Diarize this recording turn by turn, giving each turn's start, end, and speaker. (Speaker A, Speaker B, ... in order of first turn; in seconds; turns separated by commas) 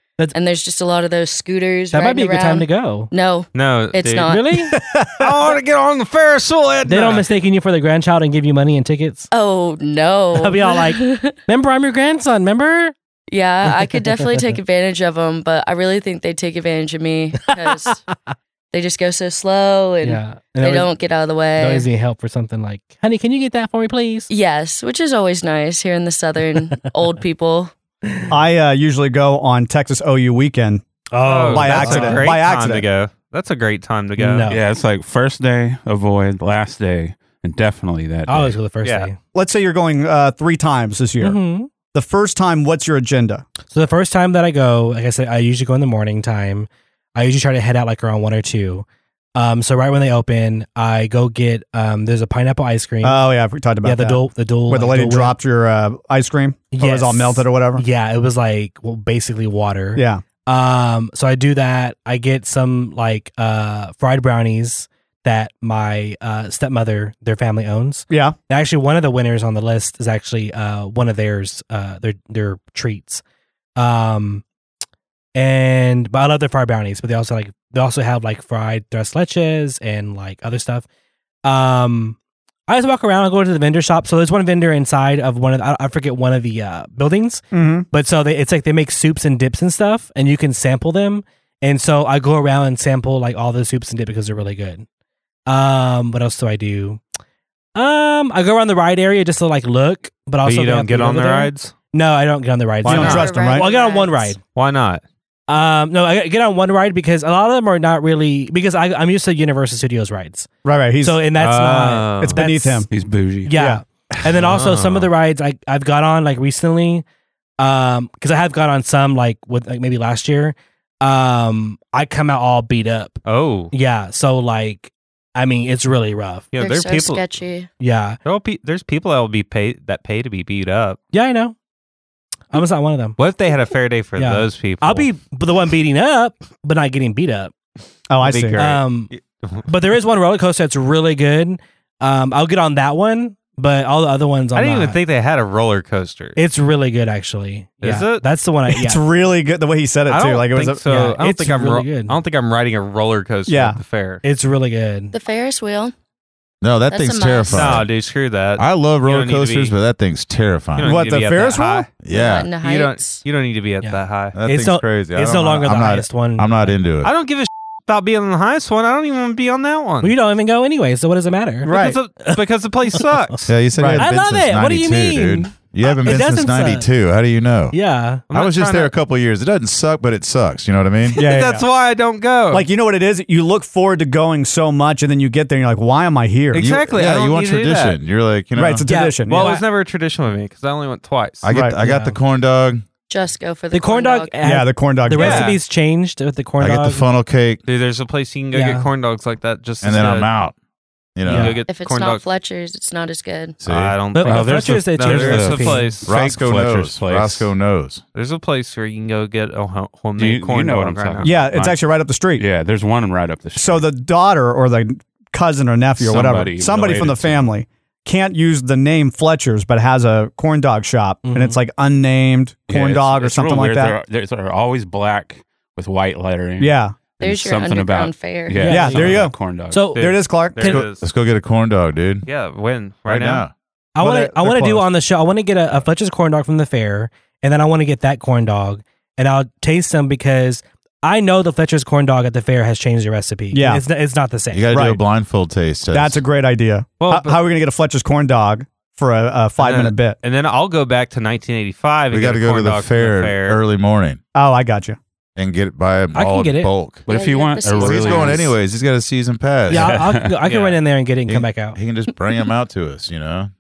Speaker A: 0.3-4.7, Speaker B: 1.9-3.1, Speaker C: 3.5-4.3, Speaker B: 4.3-4.7, Speaker D: 4.7-5.5, Speaker C: 5.2-7.2, Speaker B: 6.9-9.3, Speaker A: 9.3-11.4, Speaker B: 10.4-12.9, Speaker A: 13.3-18.0, Speaker B: 13.9-14.6, Speaker B: 17.5-18.1, Speaker A: 18.7-21.9, Speaker B: 20.0-20.9, Speaker B: 21.6-24.3, Speaker A: 24.3-27.7, Speaker D: 28.3-30.8, Speaker B: 31.1-32.3, Speaker C: 31.2-34.5, Speaker D: 31.4-32.9, Speaker B: 34.2-34.6, Speaker E: 34.5-38.6, Speaker B: 38.3-39.2, Speaker C: 38.8-39.1, Speaker D: 39.4-41.4, Speaker B: 41.2-41.7, Speaker D: 41.9-43.5, Speaker B: 43.7-48.9, Speaker B: 49.4-53.2, Speaker D: 53.0-57.8, Speaker B: 53.8-55.4, Speaker B: 56.7-73.2, Speaker D: 60.0-60.2, Speaker D: 68.1-68.4, Speaker B: 73.8-74.4, Speaker B: 75.3-80.8, Speaker B: 81.5-82.2, Speaker B: 82.7-94.9, Speaker D: 87.5-87.9, Speaker B: 95.5-97.0, Speaker B: 97.8-104.4, Speaker C: 100.4-101.7, Speaker D: 102.8-103.7, Speaker A: 102.8-104.4, Speaker C: 104.5-105.0, Speaker B: 105.5-110.5, Speaker D: 110.6-111.3, Speaker B: 111.0-112.9, Speaker C: 111.4-112.4, Speaker D: 112.2-112.9, Speaker E: 112.9-113.5, Speaker B: 113.5-117.0, Speaker D: 113.5-113.8, Speaker C: 114.3-115.1, Speaker B: 117.6-123.2, Speaker C: 123.3-123.7, Speaker B: 123.7-126.5, Speaker C: 126.5-127.2, Speaker A: 126.6-127.7, Speaker B: 127.8-128.2, Speaker C: 128.2-131.0, Speaker B: 131.1-131.6, Speaker B: 132.5-133.2, Speaker C: 133.2-135.1, Speaker B: 134.2-137.5, Speaker D: 138.1-138.7, Speaker C: 138.2-139.7, Speaker B: 138.6-139.1, Speaker B: 139.7-145.0, Speaker C: 144.5-146.4, Speaker B: 146.4-149.0, Speaker C: 147.8-148.2, Speaker D: 148.7-150.8, Speaker C: 150.1-154.2, Speaker B: 150.9-152.2, Speaker D: 153.5-153.8, Speaker B: 154.2-155.1, Speaker A: 155.1-155.9, Speaker F: 156.6-157.9, Speaker A: 156.9-157.8, Speaker C: 157.5-159.8, Speaker F: 158.6-161.0, Speaker C: 160.8-164.4, Speaker D: 160.8-161.9, Speaker F: 162.0-162.5, Speaker A: 162.1-163.2, Speaker B: 163.8-166.8, Speaker F: 164.3-167.1, Speaker C: 167.0-170.1, Speaker B: 170.0-171.7, Speaker C: 171.7-173.5, Speaker D: 171.7-172.0, Speaker F: 173.5-177.8, Speaker D: 173.8-174.1, Speaker B: 173.9-176.9, Speaker B: 177.7-178.2, Speaker C: 178.3-178.9, Speaker F: 178.3-181.2, Speaker D: 181.1-181.7, Speaker C: 181.2-182.7, Speaker D: 182.5-186.7, Speaker C: 186.5-188.0, Speaker F: 186.6-188.9, Speaker D: 188.6-189.5, Speaker B: 188.9-189.7, Speaker C: 189.3-191.4, Speaker F: 191.4-192.8, Speaker D: 191.5-191.8, Speaker B: 191.8-192.2, Speaker A: 193.1-194.4, Speaker B: 193.7-197.1, Speaker D: 194.4-195.5, Speaker C: 195.2-195.6, Speaker F: 196.6-197.6, Speaker C: 197.7-200.3, Speaker B: 198.5-198.9, Speaker F: 199.8-200.6, Speaker F: 201.2-201.6, Speaker B: 201.3-201.6, Speaker C: 201.3-202.2, Speaker A: 201.7-203.6, Speaker F: 203.6-204.0, Speaker C: 203.7-206.1, Speaker B: 204.1-205.9, Speaker E: 204.2-207.5, Speaker F: 206.1-208.0, Speaker C: 208.2-211.3, Speaker E: 210.2-211.8, Speaker D: 211.2-212.4, Speaker E: 212.4-213.9, Speaker D: 213.6-224.0, Speaker E: 216.0-217.5, Speaker B: 221.2-221.6, Speaker E: 222.7-229.9, Speaker D: 226.6-227.0, Speaker A: 227.2-228.8, Speaker B: 228.6-230.1, Speaker D: 228.7-229.4, Speaker D: 229.9-230.8, Speaker C: 229.9-231.1, Speaker F: 230.6-232.3, Speaker C: 232.2-233.5, Speaker F: 233.1-233.5, Speaker B: 233.9-244.7, Speaker D: 234.0-234.9, Speaker D: 243.5-243.8, Speaker F: 244.5-246.2, Speaker D: 244.7-245.0, Speaker D: 245.9-250.2, Speaker C: 247.0-247.4, Speaker C: 249.6-253.6, Speaker F: 252.1-254.2, Speaker D: 254.3-255.0, Speaker F: 255.4-257.1, Speaker B: 256.1-256.7, Speaker E: 257.1-258.5, Speaker A: 257.1-258.5, Speaker F: 257.7-259.9, Speaker B: 259.7-261.8, Speaker E: 259.8-260.4, Speaker C: 260.4-260.8, Speaker F: 261.3-263.5